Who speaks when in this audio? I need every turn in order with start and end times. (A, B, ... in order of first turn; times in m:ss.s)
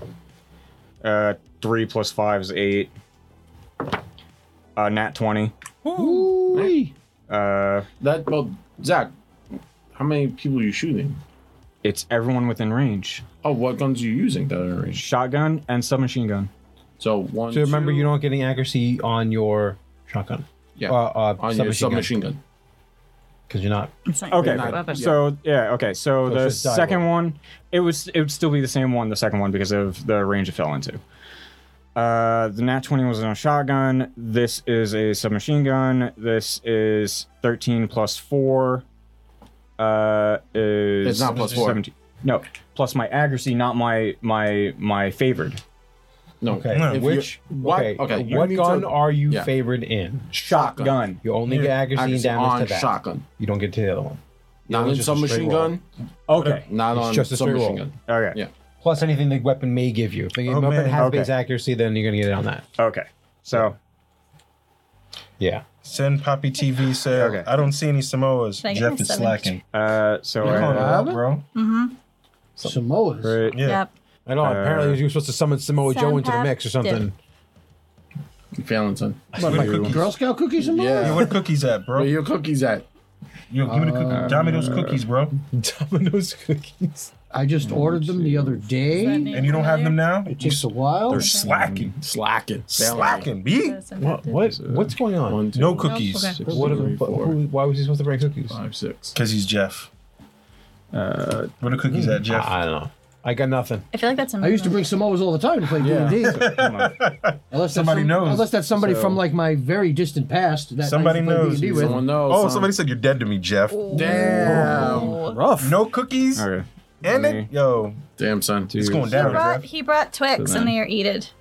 0:01.0-0:02.9 A
0:04.8-0:05.5 A
0:05.8-0:06.3 B
0:05.9-0:06.9 C
0:07.3-0:07.8 A
0:08.0-0:09.1 D
0:09.9-0:11.2 D
0:11.8-0:13.2 A
0:13.4-0:15.0 D
0:15.0-0:16.5 A
0:17.0-0:18.1 D
0:17.5-0:22.2 E
0:20.8-0:22.4 D
0:23.5-0:23.9 E
0:24.1-0:25.1 F
0:24.3-0:31.0 A
0:24.4-0:25.2 D
0:26.2-0:27.1 E
0:31.9-0:38.8 A
0:39.8-0:45.6 A
0:41.0-0:41.8 D
0:41.3-0:41.7 B
0:46.4-0:49.5 D
0:46.5-0:50.3 E
0:46.7-0:47.1 B
0:50.3-0:51.0 D
0:50.3-0:51.2 A
0:51.2-0:55.7 E
0:51.4-0:51.8 B
0:51.8-0:53.2 D
0:54.7-0:55.8 D
0:56.3-0:56.7 A
0:56.4-0:58.5 D
0:56.9-0:57.8 E
0:58.1-0:58.4 A
0:58.8-1:02.6 E
1:00.4-1:01.1 B
1:00.9-1:01.3 A
1:02.8-1:03.8 A
1:05.4-1:05.6 E
1:05.8-1:09.6 B
1:07.1-1:07.5 A
1:08.6-1:09.6 F
1:09.7-1:11.1 A
1:10.4-1:11.4 B
1:10.4-1:11.2 C
1:11.5-1:11.9 F
1:12.6-1:13.4 C
1:13.2-1:13.7 A
1:13.5-1:13.8 B
1:13.6-1:13.9 F
1:14.2-1:17.1 E
1:14.4-1:15.0 A
1:15.8-1:17.0 F
1:18.5-1:19.6 D
1:19.3-1:20.1 B
1:19.4-1:21.3 C
1:19.5-1:20.0 A
1:20.6-1:21.4 D
1:21.0-1:22.1 B
1:21.9-1:22.8 D
1:23.5-1:25.3 B
1:23.6-1:24.7 C
1:24.1-1:25.0 A
1:25.3-1:27.1 E
1:27.3-1:29.6 C
1:27.6-1:28.5 D
1:27.7-1:28.4 E
1:28.9-1:30.0 F
1:29.3-1:31.9 B
1:30.2-1:31.3 C
1:31.1-1:32.0 A
1:31.1-1:31.5 F
1:32.0-1:33.3 D
1:32.7-1:33.9 B
1:33.4-1:34.5 F
1:34.0-1:35.7 E
1:34.3-1:35.0 A
1:35.2-1:37.4 D
1:35.5-1:36.4 B
1:35.8-1:36.4 F
1:36.3-1:36.7 A
1:36.5-1:38.6 E
1:38.5-1:39.2 D
1:39.1-1:39.9 B
1:40.9-1:41.8 A
1:41.6-1:42.6 B
1:41.9-1:43.8 E
1:43.9-1:44.8 F
1:44.4-1:46.5 C
1:45.8-1:46.3 D
1:46.2-1:48.6 B
1:46.3-1:47.0 A
1:47.5-1:52.0 C
1:48.8-1:49.2 A
1:50.8-1:55.0 B
1:51.7-1:52.7 D
1:53.7-1:55.4 F
1:53.9-1:55.2 D
1:53.9-1:55.8 C
1:55.6-1:56.5 B
1:56.3-1:57.5 A
1:57.0-1:58.0 B
1:58.2-1:58.8 D
1:58.7-1:59.4 A
1:58.8-1:59.7 B
1:59.1-2:01.3 F
2:00.3-2:00.8 A